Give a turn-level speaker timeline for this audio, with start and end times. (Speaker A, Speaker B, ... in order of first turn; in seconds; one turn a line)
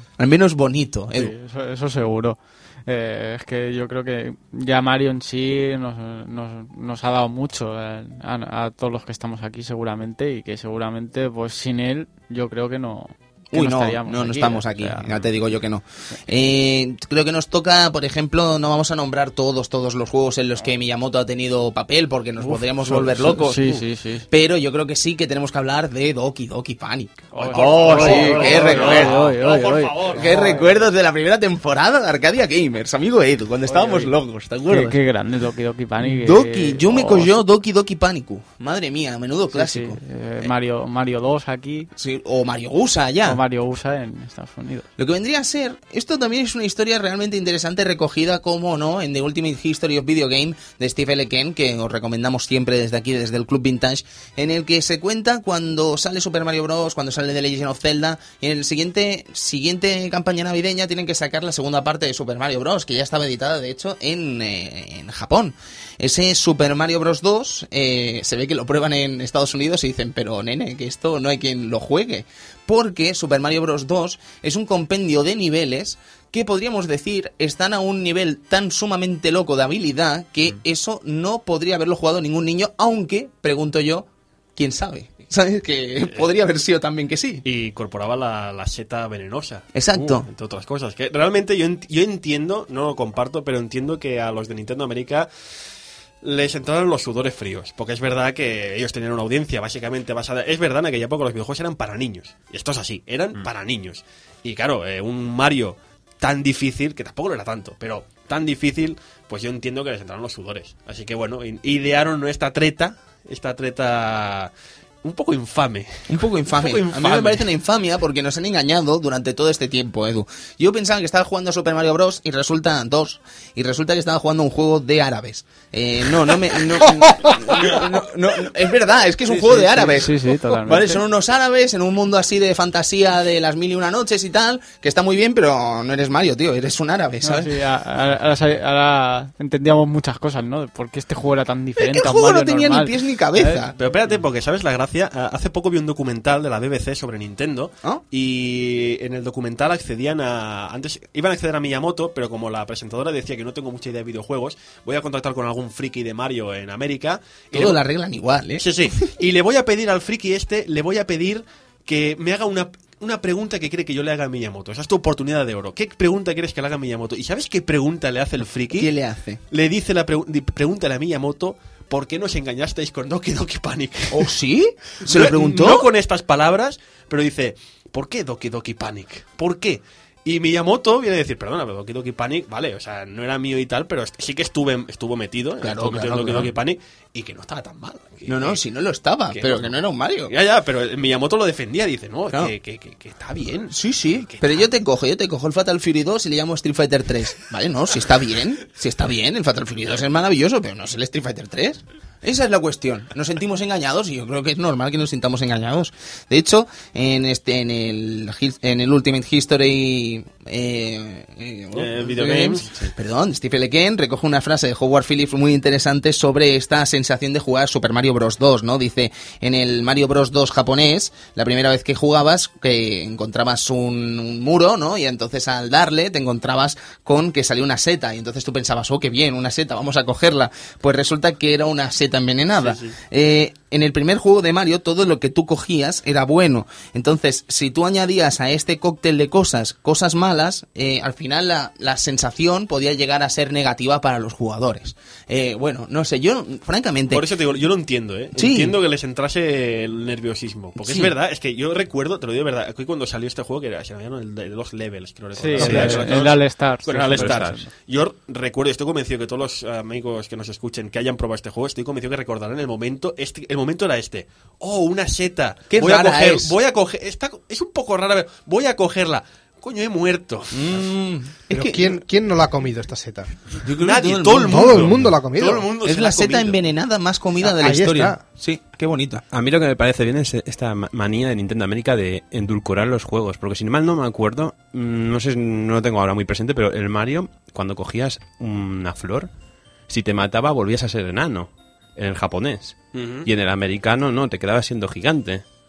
Speaker A: 0.2-1.3
Speaker B: 1.2-15.2
Speaker A: 13.5-29.2
Speaker B: 22.4-24.2
Speaker B: 27.3-30.7
Speaker C: 27.3-30.7
Speaker A: 30.1-35.0
Speaker B: 33.7-34.1
Speaker B: 34.7-37.3
Speaker A: 36.0-40.0
Speaker B: 39.5-41.9
Speaker A: 42.0-43.4
Speaker B: 43.2-44.9
Speaker A: 45.0-87.4
Speaker C: 87.4-95.3
Speaker A: 89.7-90.3
Speaker C: 96.2-114.5
Speaker C: 115.0-117.5
Speaker A: 116.1-137.6
Speaker B: 129.3-131.0
Speaker B: 137.2-143.7
Speaker A: 141.8-143.7
Speaker C: 143.7-157.8
Speaker A: 157.5-158.7
Speaker C: 158.6-168.9
Speaker A: 168.7-169.4
Speaker C: 169.5-174.3
Speaker A: 174.1-175.9
Speaker C: 175.0-188.6
Speaker A: 185.6-186.5
Speaker A: 188.2-190.3
Speaker C: 189.3-189.7
Speaker C: 190.3-194.7
Speaker A: 193.7-247.2
Speaker C: 211.7-212.9
Speaker C: 232.6-232.9
Speaker C: 247.1-270.8
Speaker A: 248.3-248.8
Speaker A: 250.8-251.1
Speaker B: 255.3-257.6
Speaker D: 255.6-255.9
Speaker A: 255.6-255.9
Speaker E: 255.7-256.0
Speaker E: 257.1-257.6
Speaker A: 265.7-266.5
Speaker A: 270.5-272.0
Speaker D: 271.5-273.5
Speaker A: 273.6-274.9
Speaker C: 273.8-276.6
Speaker D: 274.4-275.7
Speaker A: 275.8-279.2
Speaker D: 277.4-278.2
Speaker E: 279.3-289.3
Speaker E: 289.9-295.4
Speaker C: 292.9-293.3